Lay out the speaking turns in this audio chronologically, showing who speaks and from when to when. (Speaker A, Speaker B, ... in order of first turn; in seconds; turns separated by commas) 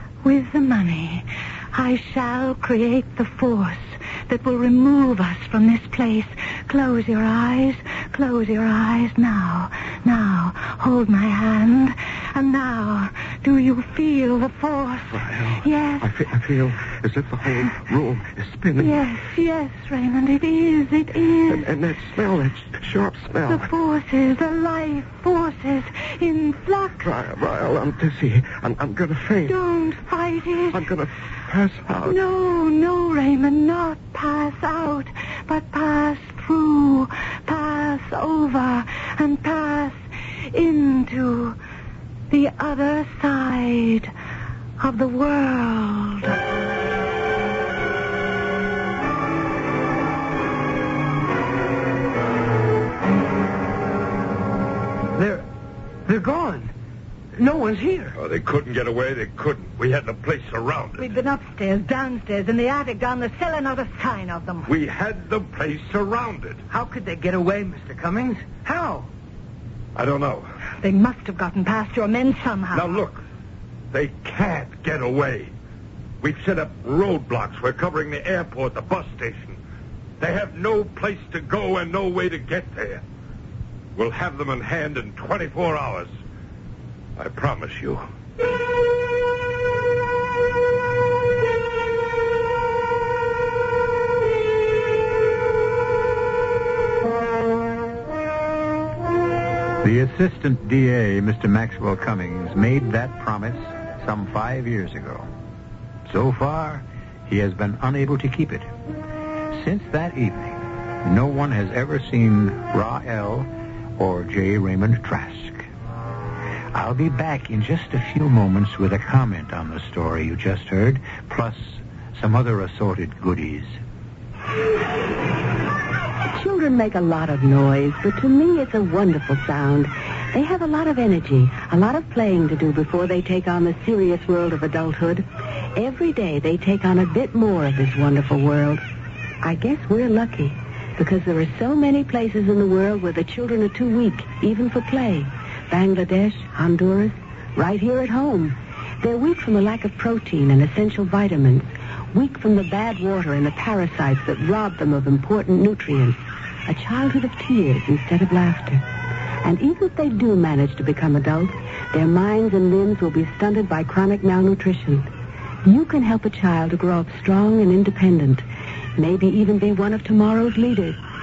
Speaker A: 0.2-16.1, Speaker B: 15.2-19.0, Speaker A: 18.8-21.7, Speaker B: 21.5-23.7, Speaker A: 23.5-27.1, Speaker B: 27.0-29.6, Speaker A: 29.5-30.9, Speaker B: 30.7-32.2, Speaker A: 32.0-41.6, Speaker A: 42.3-44.1, Speaker A: 44.8-46.4, Speaker C: 55.1-55.5, Speaker C: 56.1-56.7, Speaker C: 57.4-58.2, Speaker D: 58.1-61.1, Speaker A: 61.0-64.7, Speaker D: 64.7-66.6, Speaker C: 66.7-69.1, Speaker D: 70.0-70.5, Speaker A: 70.8-73.0, Speaker D: 72.7-73.2, Speaker D: 73.9-75.5, Speaker D: 76.2-79.6, Speaker D: 80.2-83.0, Speaker D: 84.0-86.1, Speaker D: 87.2-88.0, Speaker E: 99.8-105.3, Speaker E: 106.1-108.7, Speaker E: 109.5-115.7, Speaker E: 116.7-123.8, Speaker F: 126.3-138.8, Speaker F: 139.4-158.8, Speaker F: 159.4-165.1, Speaker F: 165.7-168.4, Speaker F: 169.0-171.0